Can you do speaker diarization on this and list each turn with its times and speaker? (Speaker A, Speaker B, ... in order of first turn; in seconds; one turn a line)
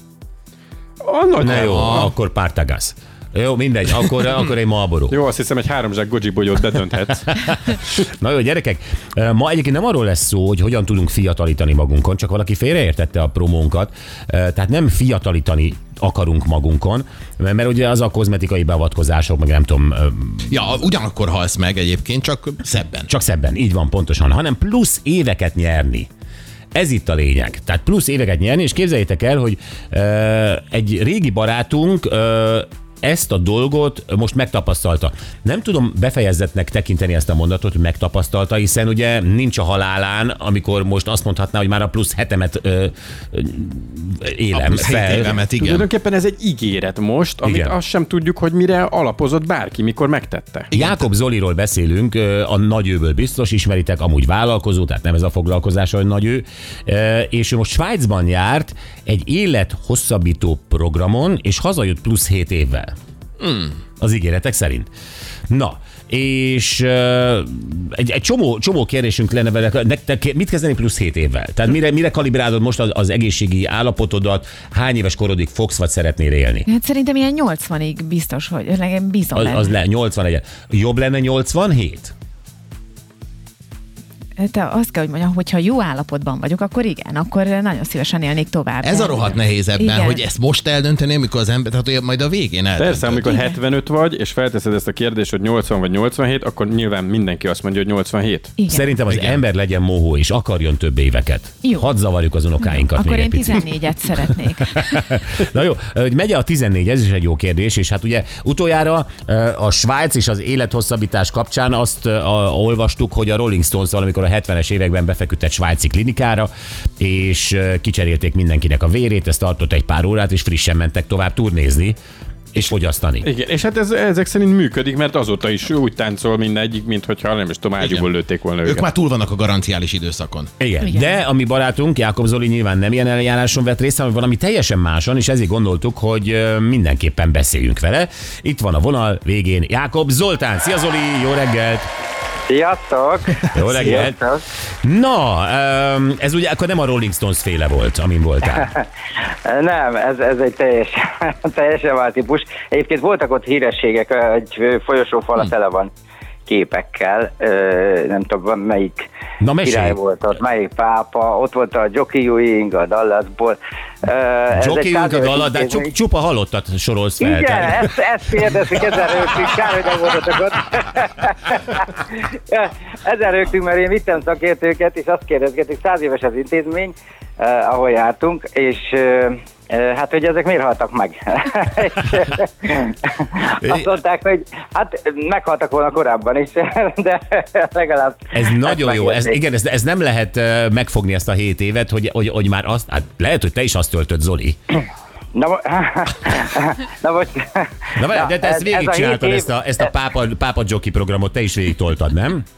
Speaker A: 1.0-2.1
Speaker B: 1.4-5.2
Speaker C: 1.4-2.1
Speaker A: 5.1-7.3
Speaker B: 7.3-20.5
Speaker C: 20.5-23.1
Speaker B: 23.1-26.1
Speaker B: 26.7-45.4
Speaker C: 44.5-45.9
Speaker A: 45.2-50.7
Speaker B: 47.4-47.7
Speaker B: 50.7-62.9
Speaker C: 63.4-63.7
Speaker B: 64.0-64.9
Speaker B: 65.5-76.7
Speaker D: 76.7-79.6
Speaker B: 79.3-82.1
Speaker D: 84.4-89.1
Speaker C: 88.8-93.4
Speaker A: 92.8-98.5
Speaker B: 98.7-103.7
Speaker C: 99.0-99.4
Speaker D: 103.1-104.6
Speaker B: 104.7-122.0
Speaker B: 122.5-123.3
Speaker A: 123.2-128.9
Speaker C: 127.8-128.1
Speaker C: 128.6-130.5
Speaker B: 130.6-141.9
Speaker E: 142.5-144.4
Speaker B: 143.5-144.2
Speaker B: 144.8-148.7
Speaker E: 148.5-148.8
Speaker E: 149.4-155.9
Speaker E: 156.5-159.0
Speaker B: 159.4-160.0
Speaker E: 159.6-165.9
Speaker B: 164.5-167.9
Speaker E: 167.2-189.4
Speaker B: 188.3-194.6
Speaker E: 195.3-199.5
Speaker B: 198.0-202.4